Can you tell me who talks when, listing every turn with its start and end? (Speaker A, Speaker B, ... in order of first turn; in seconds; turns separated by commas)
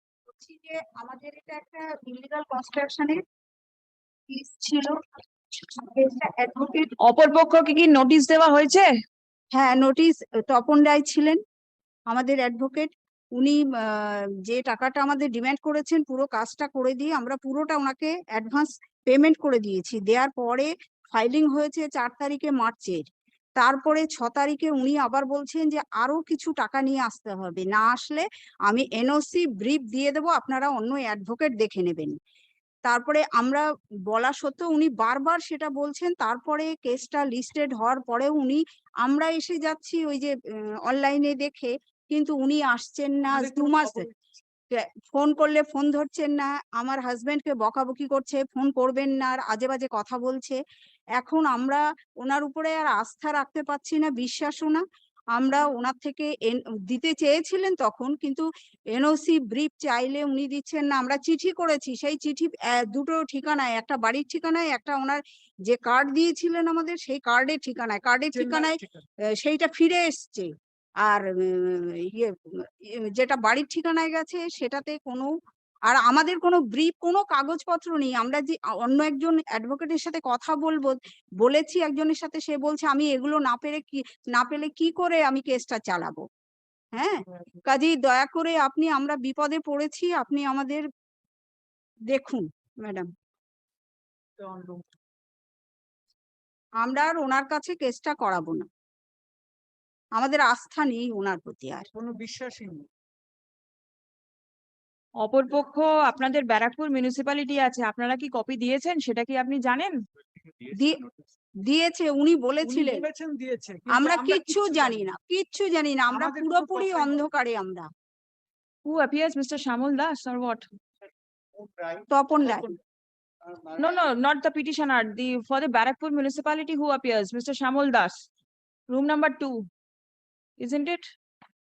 Speaker A: 0.3-3.2, Speaker A: 4.3-5.0, Speaker A: 5.8-6.9, Speaker B: 7.0-8.9, Speaker A: 9.6-11.4, Speaker A: 12.1-23.0, Speaker A: 23.6-32.1, Speaker A: 32.9-44.0, Speaker C: 43.3-44.2, Speaker A: 44.7-50.6, Speaker A: 51.2-54.8, Speaker A: 55.4-68.8, Speaker C: 68.3-69.0, Speaker A: 69.4-70.5, Speaker A: 71.0-75.3, Speaker A: 75.9-86.2, Speaker A: 86.9-90.8, Speaker A: 92.1-93.1, Speaker C: 94.4-94.8, Speaker A: 96.8-98.7, Speaker A: 100.2-101.9, Speaker C: 101.9-102.9, Speaker B: 105.2-110.0, Speaker A: 110.8-111.0, Speaker A: 111.7-113.0, Speaker C: 112.6-115.1, Speaker A: 113.9-117.9, Speaker C: 116.1-117.2, Speaker B: 118.9-120.7, Speaker C: 121.6-122.7, Speaker A: 122.1-122.7, Speaker C: 123.5-124.0, Speaker B: 123.8-128.2, Speaker B: 128.9-129.6, Speaker B: 130.6-131.0